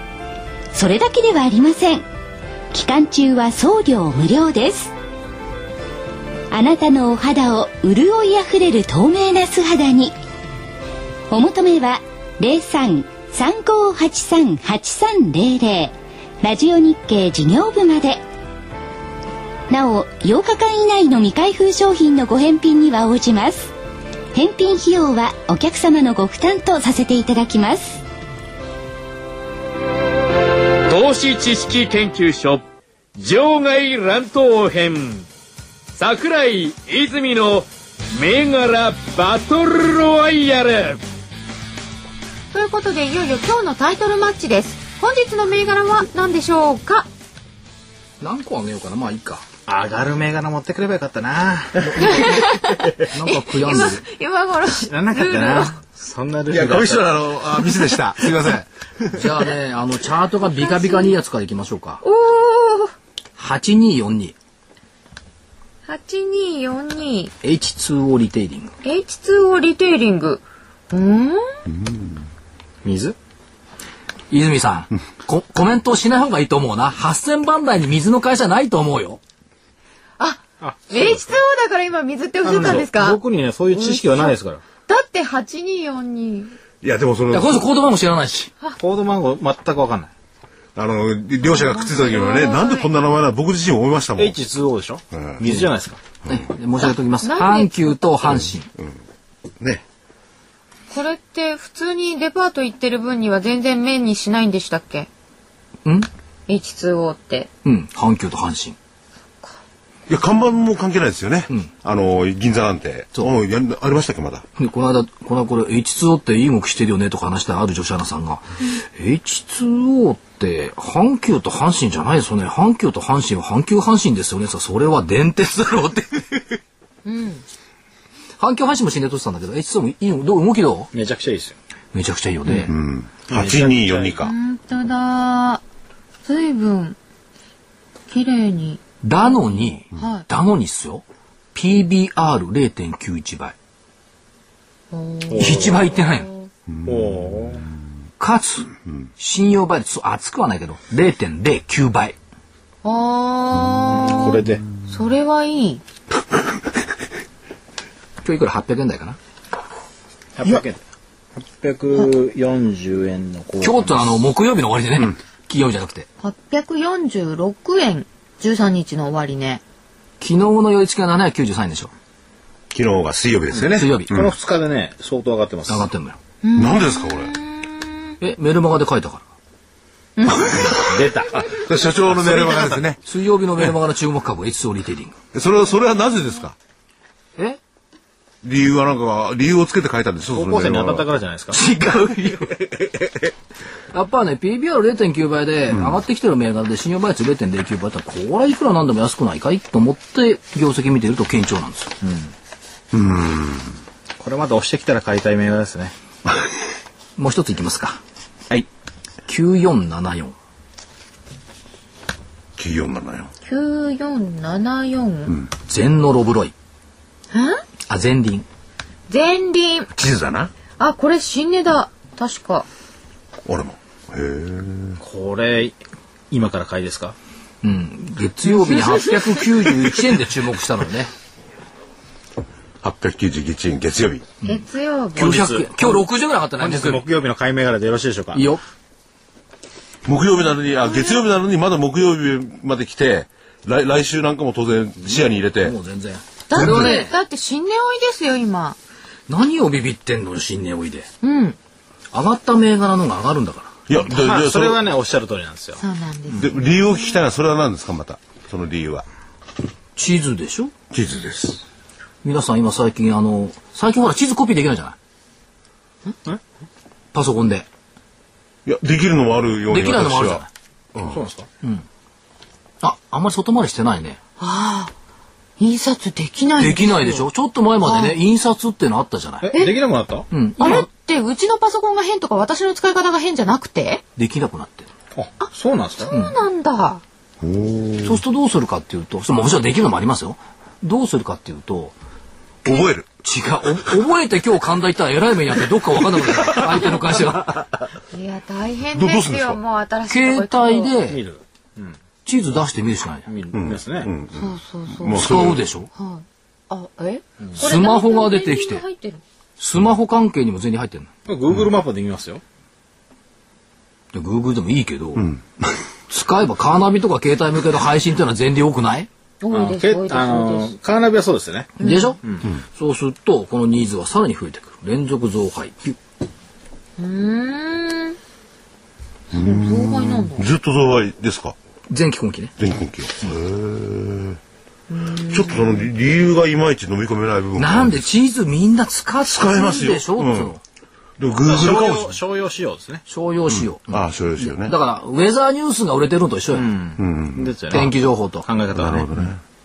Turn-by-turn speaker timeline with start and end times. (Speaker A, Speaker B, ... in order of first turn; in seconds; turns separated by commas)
Speaker A: 0.7-2.0, Speaker A: 2.7-4.9, Speaker A: 6.5-10.2, Speaker A: 11.3-18.2, Speaker A: 19.7-23.7, Speaker A: 24.3-28.0, Speaker B: 30.9-32.6, Speaker B: 33.2-35.3, Speaker B: 36.0-41.0, Speaker C: 42.5-47.1, Speaker D: 48.2-49.5, Speaker E: 49.7-52.3, Speaker D: 51.8-54.0, Speaker C: 52.0-55.8, Speaker E: 54.7-57.2, Speaker F: 56.5-59.3, Speaker D: 59.1-62.0, Speaker C: 60.4-61.2, Speaker C: 62.0-62.9, Speaker D: 63.4-64.3, Speaker C: 65.9-67.3, Speaker D: 67.4-68.7, Speaker C: 68.8-71.4, Speaker E: 72.8-73.2, Speaker D: 74.3-79.2, Speaker C: 80.2-83.2, Speaker E: 80.6-81.3, Speaker E: 82.4-84.6, Speaker C: 83.7-84.3, Speaker C: 84.9-86.5, Speaker F: 86.8-87.7, Speaker D: 87.3-88.5, Speaker E: 88.8-90.1, Speaker F: 90.8-94.4, Speaker C: 91.4-92.9, Speaker E: 94.2-96.0, Speaker F: 95.1-95.6, Speaker D: 96.3-98.7, Speaker C: 97.2-98.0, Speaker C: 100.9-105.1, Speaker C: 106.5-107.5, Speaker D: 107.7-108.8, Speaker F: 110.1-114.5, Speaker D: 114.6-126.5, Speaker C: 127.0-127.4, Speaker D: 128.4-130.9, Speaker E: 130.9-131.6, Speaker D: 131.9-132.7, Speaker F: 132.6-134.3, Speaker E: 133.3-134.2, Speaker C: 134.2-135.6, Speaker C: 136.2-137.0, Speaker C: 138.1-140.3, Speaker D: 139.0-143.6, Speaker C: 144.9-146.5, Speaker E: 145.3-145.9, Speaker D: 145.4-146.3, Speaker F: 146.7-147.3, Speaker E: 146.8-147.7, Speaker D: 148.2-152.2, Speaker C: 152.8-155.8, Speaker F: 153.8-154.1, Speaker E: 153.9-154.6, Speaker D: 158.2-159.2, Speaker E: 160.4-160.8, Speaker E: 161.4-164.0, Speaker D: 163.6-166.1, Speaker C: 166.2-169.6, Speaker D: 170.2-171.9, Speaker F: 172.7-174.3, Speaker D: 173.6-174.1, Speaker E: 174.1-175.9, Speaker D: 175.7-176.2, Speaker C: 176.4-178.1, Speaker F: 176.6-177.3, Speaker D: 178.2-179.2, Speaker C: 180.2-180.8, Speaker F: 180.3-183.0, Speaker E: 180.6-182.8, Speaker D: 183.1-185.2, Speaker F: 185.3-186.6, Speaker F: 188.4-191.1, Speaker E: 190.3-191.6, Speaker D: 191.5-192.5, Speaker F: 192.4-193.2, Speaker D: 193.9-202.0, Speaker E: 202.0-202.3, Speaker F: 202.9-203.7, Speaker E: 204.2-205.9, Speaker D: 207.2-208.0, Speaker D: 209.3-210.3, Speaker F: 212.6-213.3, Speaker C: 213.4-215.4, Speaker D: 215.7-216.5, Speaker C: 217.3-217.6, Speaker D: 217.9-218.5, Speaker C: 219.1-219.9, Speaker F: 219.9-220.5, Speaker C: 220.8-222.7, Speaker F: 223.5-225.0, Speaker E: 225.0-225.8, Speaker E: 226.3-227.2, Speaker D: 227.6-231.1, Speaker C: 228.4-229.7, Speaker F: 232.8-234.3, Speaker C: 234.4-235.4, Speaker D: 235.2-237.1, Speaker E: 235.2-236.0, Speaker E: 236.6-238.5, Speaker D: 238.3-238.6, Speaker F: 240.1-245.8, Speaker C: 240.8-241.3, Speaker D: 245.1-247.2, Speaker C: 246.5-248.8, Speaker D: 249.3-251.1, Speaker C: 251.2-251.6, Speaker D: 252.1-253.8, Speaker F: 253.9-254.8, Speaker E: 254.1-255.8, Speaker C: 255.8-257.2, Speaker F: 256.3-259.1, Speaker D: 260.0-260.7, Speaker F: 260.9-261.6, Speaker D: 262.2-265.0, Speaker D: 267.1-267.7, Speaker F: 268.7-270.4, Speaker D: 269.7-270.5, Speaker E: 271.1-271.5, Speaker D: 272.8-274.2, Speaker C: 274.4-274.9, Speaker C: 275.6-277.3, Speaker D: 276.6-279.5, Speaker C: 277.8-278.2, Speaker E: 279.4-280.3, Speaker D: 280.3-280.9, Speaker C: 280.6-284.0, Speaker D: 284.2-284.9, Speaker E: 285.1-286.1, Speaker C: 285.4-287.0, Speaker D: 286.1-286.4, Speaker F: 287.4-288.2, Speaker D: 288.0-291.9, Speaker F: 292.6-293.1, Speaker D: 293.2-297.6, Speaker C: 298.1-301.0, Speaker F: 298.9-299.6, Speaker D: 300.1-301.2, Speaker E: 301.1-302.0, Speaker D: 302.2-303.3, Speaker E: 303.3-304.1, Speaker F: 303.5-304.5, Speaker C: 304.3-309.2, Speaker F: 305.0-305.6, Speaker D: 305.1-305.9, Speaker D: 307.6-308.8, Speaker D: 309.6-311.1, Speaker E: 311.3-312.4, Speaker D: 314.1-315.3, Speaker F: 315.2-315.4, Speaker D: 316.1-319.1, Speaker C: 319.4-320.8, Speaker E: 319.5-322.5, Speaker C: 321.8-322.2, Speaker D: 321.8-326.0, Speaker C: 327.0-328.2, Speaker C: 329.3-330.5, Speaker F: 329.3-331.6, Speaker D: 331.9-332.5, Speaker F: 332.6-334.4, Speaker C: 334.9-335.9, Speaker F: 335.2-338.1, Speaker D: 337.6-340.6, Speaker F: 339.3-340.6, Speaker F: 341.2-342.2, Speaker E: 341.4-343.0, Speaker D: 343.1-346.7, Speaker F: 343.5-344.8, Speaker E: 346.5-347.9, Speaker F: 347.0-347.6, Speaker D: 347.7-348.5, Speaker E: 348.4-349.1, Speaker F: 348.7-349.4